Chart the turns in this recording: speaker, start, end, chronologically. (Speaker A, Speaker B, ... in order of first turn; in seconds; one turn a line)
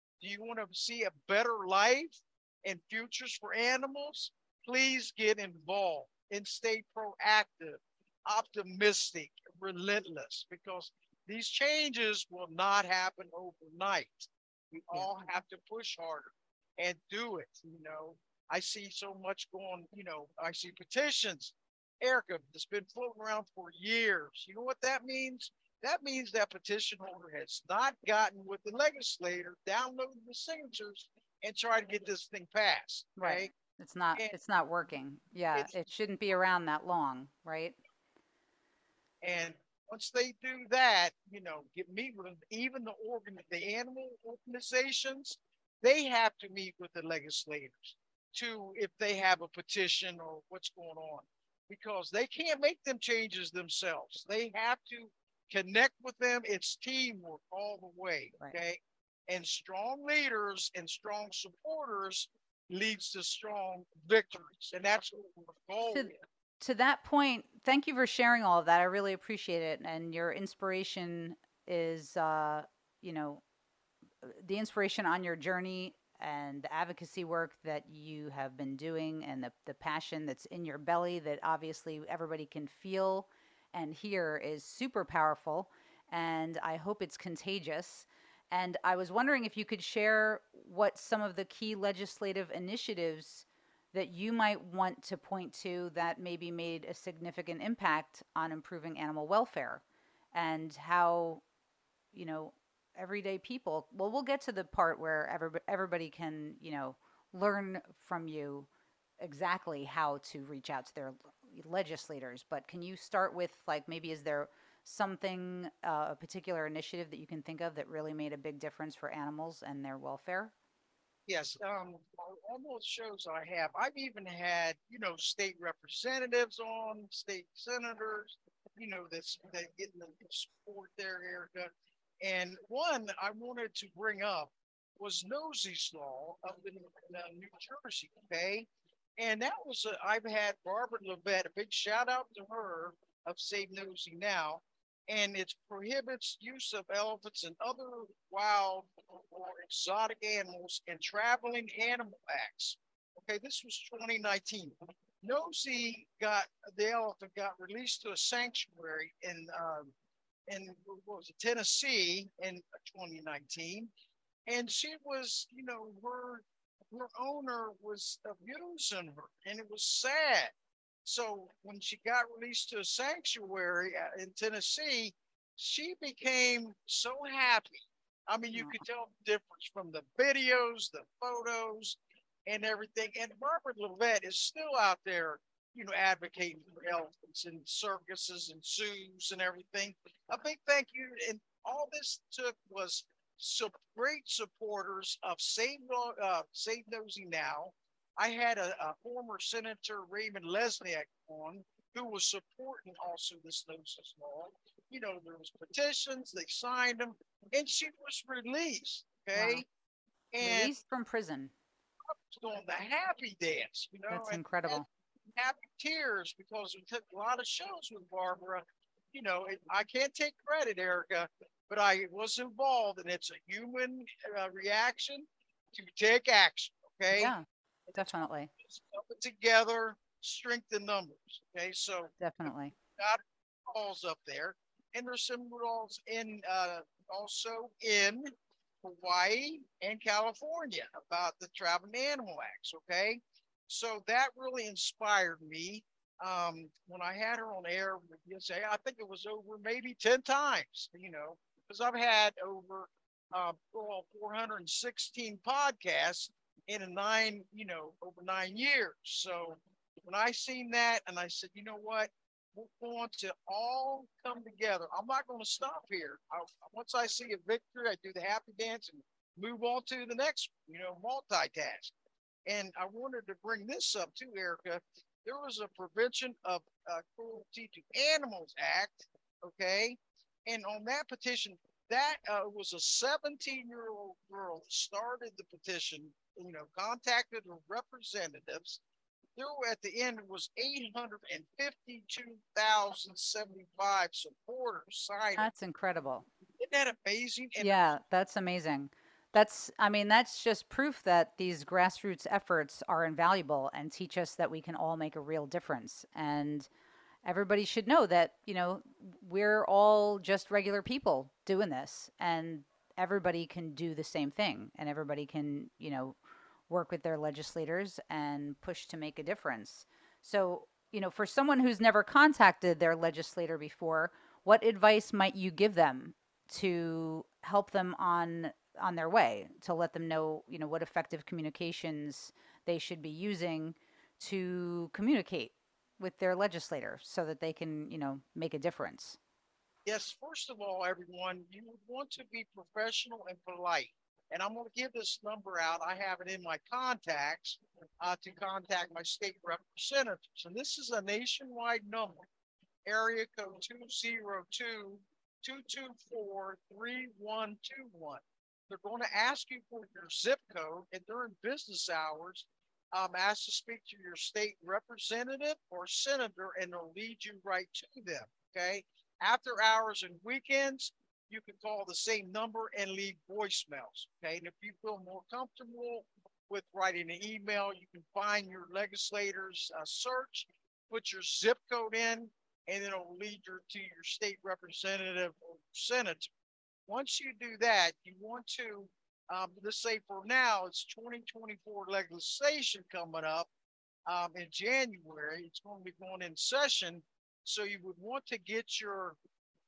Speaker A: 0.2-33.5
Speaker B: 33.2-37.8
Speaker A: 39.2-66.2
Speaker B: 65.8-73.4
Speaker B: 74.2-101.4
Speaker B: 102.1-108.7
Speaker B: 109.2-120.5
Speaker A: 121.3-131.7
Speaker A: 132.2-159.9
Speaker A: 160.5-163.9
Speaker A: 164.5-170.5
Speaker A: 171.0-209.6
Speaker B: 178.5-178.8
Speaker B: 209.3-209.6
Speaker A: 210.3-210.7
Speaker B: 210.4-211.5
Speaker A: 212.1-214.8
Speaker B: 214.1-214.8
Speaker A: 215.4-227.3
Speaker B: 227.1-227.4
Speaker A: 227.9-232.1
Speaker B: 227.9-228.5
Speaker B: 232.2-232.7
Speaker A: 233.0-238.3
Speaker A: 238.8-271.9
Speaker A: 272.4-288.8
Speaker A: 289.4-295.5
Speaker B: 295.4-296.2
Speaker A: 296.6-297.9
Speaker B: 297.6-306.7
Speaker B: 307.2-316.2
Speaker B: 316.7-339.2
Speaker A: 339.9-352.2
Speaker A: 352.9-386.3
Speaker A: 386.9-393.5
Speaker A: 394.1-399.1